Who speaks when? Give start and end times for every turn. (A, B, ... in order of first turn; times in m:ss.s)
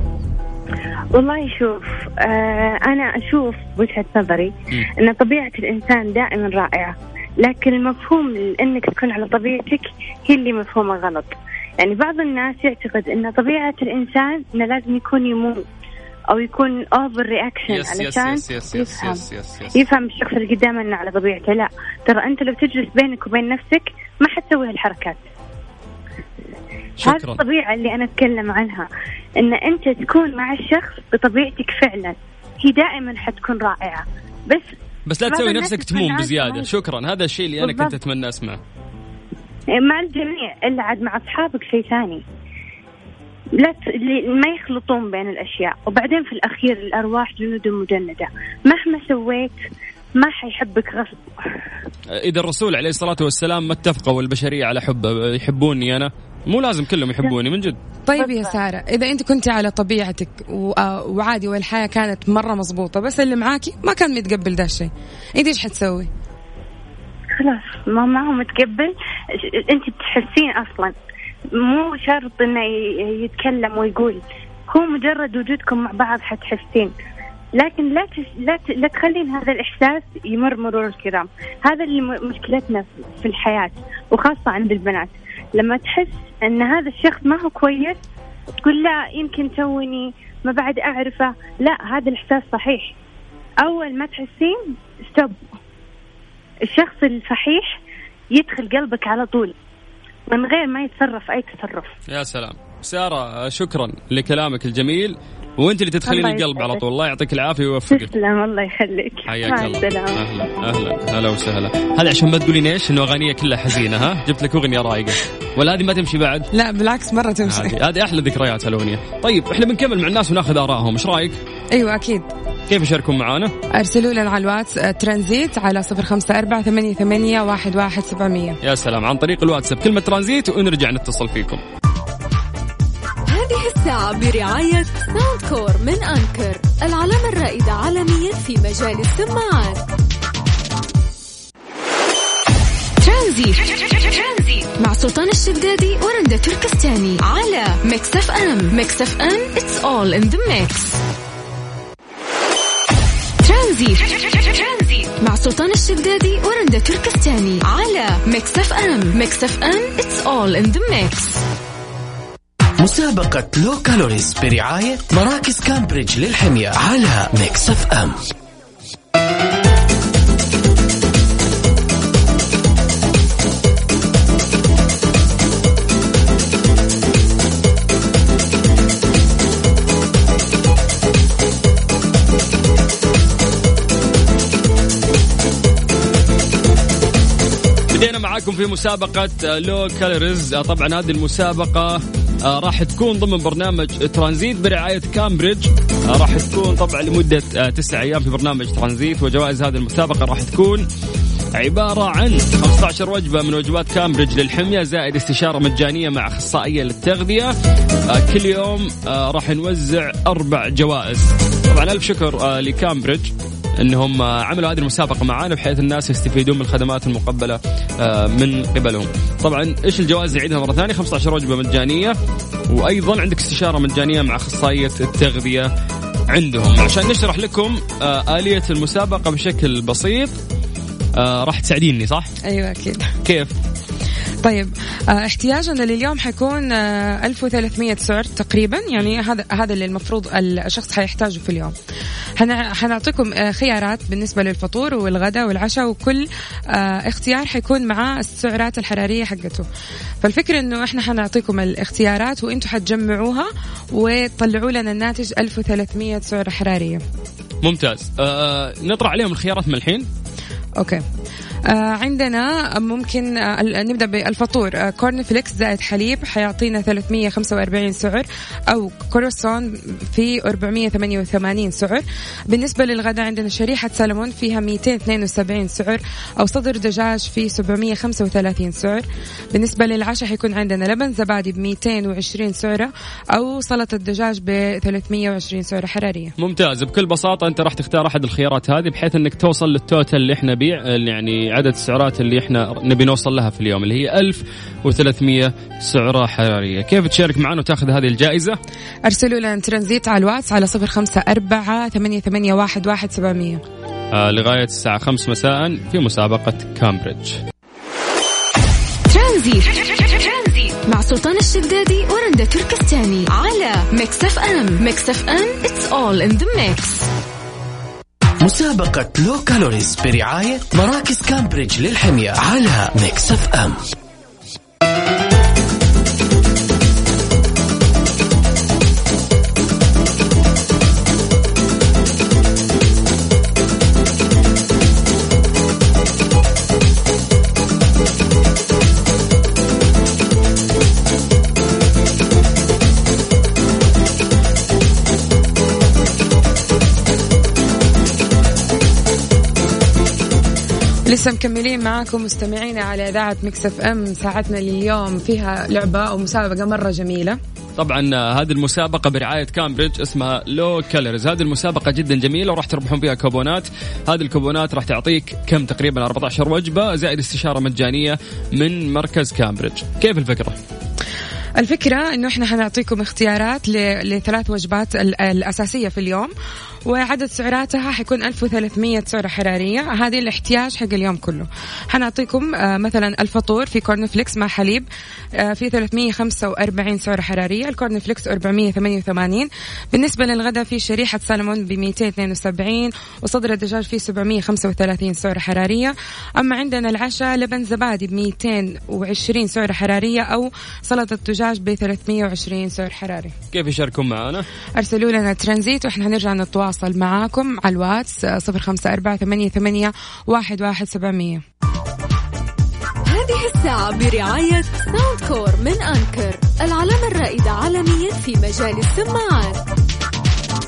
0:01.1-0:15.6 A
0:16.3-0:19.2 A
0:17.7-0:19.8 B
0:19.7-0:25.2 A
0:27.0-0:27.4 B
0:27.0-0:28.9 A
0:29.4-0:34.7 A
0:35.1-0:38.6 B
0:35.3-0:36.7 A
0:37.6-0:38.0 A
0:39.7-0:42.2 A
0:43.6-0:49.6 A
0:50.2-0:51.2 A
0:52.1-0:57.8 B
0:58.0-1:06.1 C
0:58.2-0:58.5 A
1:07.4-1:10.9 A
1:11.6-1:16.9 A
1:17.6-1:28.0 A
1:28.6-1:32.9 A
1:33.6-1:35.4 A
1:36.6-1:37.7 A
1:38.3-1:39.5 A
1:40.3-1:41.9 A
1:42.1-1:48.1 B
1:46.0-1:46.8 A
1:47.9-1:50.2 A
1:49.3-1:56.5 B
1:56.5-1:57.7 C
1:57.4-2:01.4 B
2:01.7-2:02.3 C
2:02.7-2:03.5 B
2:03.8-2:08.6 C
2:08.6-2:11.6 B
2:13.3-2:19.8 D
2:23.0-2:31.0 D
2:33.4-2:41.4 D
2:42.8-2:48.2 E
3:07.9-3:20.8 B
3:21.6-3:27.5 B
3:28.1-3:42.2 B
3:42.7-3:45.7 B
3:46.3-3:50.3 B
3:51.2-3:52.3 B
3:52.5-3:53.1 C
3:53.2-3:53.5 B
3:54.4-4:01.7 C
4:02.4-4:09.6 C
4:10.2-4:17.0 C
4:17.6-4:20.1 B
4:21.7-4:46.3 C
4:46.4-4:58.6 B
4:59.1-5:03.6 C
5:04.1-5:07.4 B
5:09.1-5:17.1 D
5:18.4-5:23.8 E
5:51.0-5:57.4 C
5:57.8-6:10.6 B
6:11.6-6:16.3 C
6:16.8-6:24.9 C
6:25.4-6:43.3 C
6:43.5-6:44.4 B
6:44.8-6:51.4 C
6:53.0-6:59.6 D